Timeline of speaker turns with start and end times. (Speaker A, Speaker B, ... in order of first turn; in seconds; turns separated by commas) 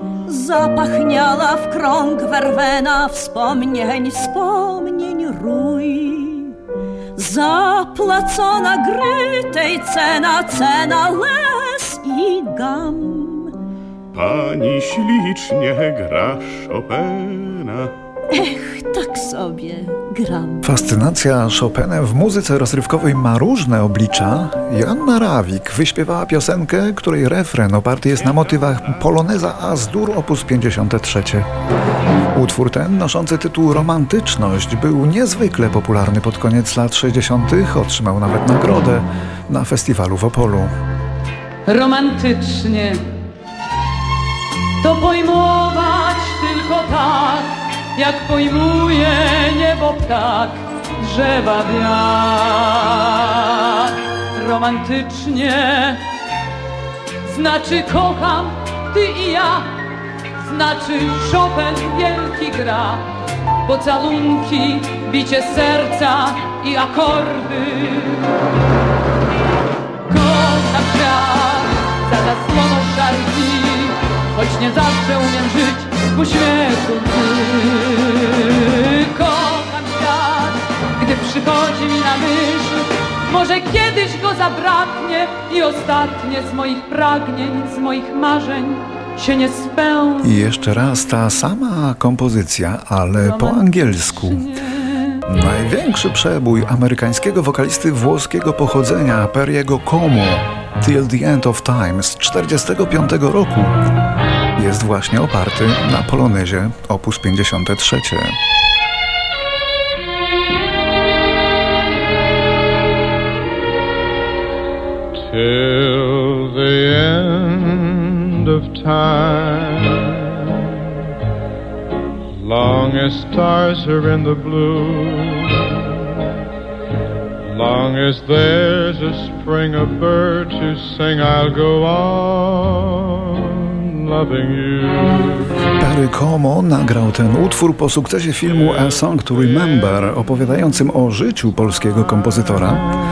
Speaker A: 0.3-6.6, Speaker A: 7.2-13.5, Speaker B: 14.1-17.9, Speaker A: 18.3-20.6, Speaker C: 20.6-31.5, Speaker B: 28.3-29.0, Speaker C: 32.3-40.7, Speaker D: 41.7-43.1, Speaker D: 44.8-56.0, Speaker D: 57.2-59.7, Speaker D: 60.4-63.1, Speaker D: 63.7-68.4, Speaker D: 70.1-90.4, Speaker C: 90.2-94.5, Speaker D: 93.2-95.1, Speaker C: 95.3-103.8, Speaker C: 104.6-108.4, Speaker E: 115.2-120.9, Speaker E: 122.3-126.3, Speaker E: 127.4-135.5, Speaker C: 135.8-142.9